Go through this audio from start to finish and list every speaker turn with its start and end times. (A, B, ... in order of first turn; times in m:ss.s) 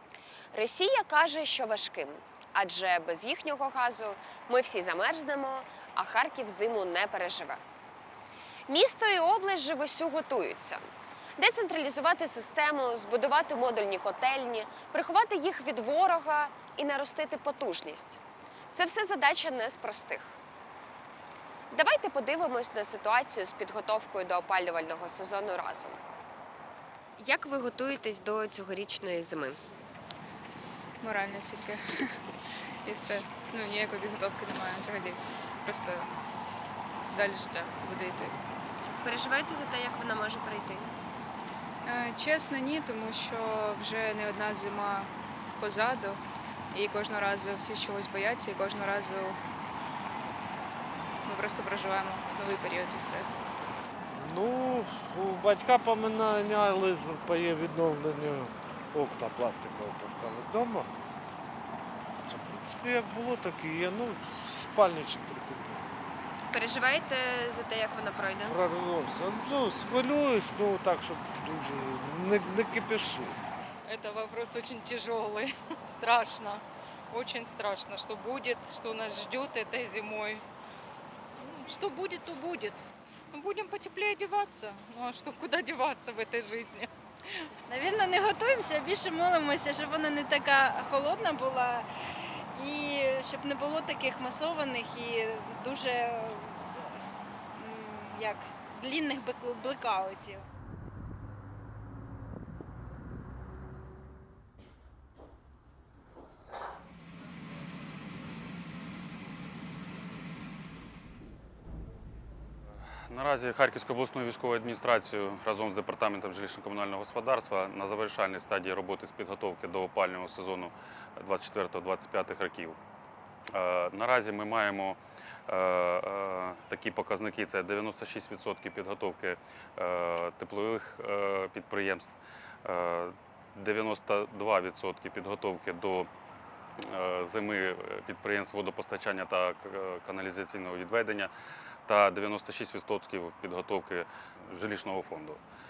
0:00.5-0:07.6 A
0:08.7-0:18.2 A
0:18.7-0:20.4 A
0:21.7-0:26.0 A
0:27.2-0:29.6 A
0:31.0-0:32.2 B
0:32.8-0:36.1 B
0:37.1-0:38.4 B
0:39.0-0:40.9 A
0:41.8-0:49.4 B
0:51.2-0:53.3 B
0:54.1-1:00.9 C
1:02.2-1:05.8 C
1:06.5-1:08.6 A
1:08.4-1:13.4 C
1:13.8-1:20.4 D
1:21.4-1:26.9 D
1:27.7-1:31.9 E
1:32.5-1:36.9 E
1:37.6-1:40.4 E
1:53.1-2:02.8 F
2:03.5-2:16.1 F
2:16.8-2:21.3 F
2:21.9-2:25.4 F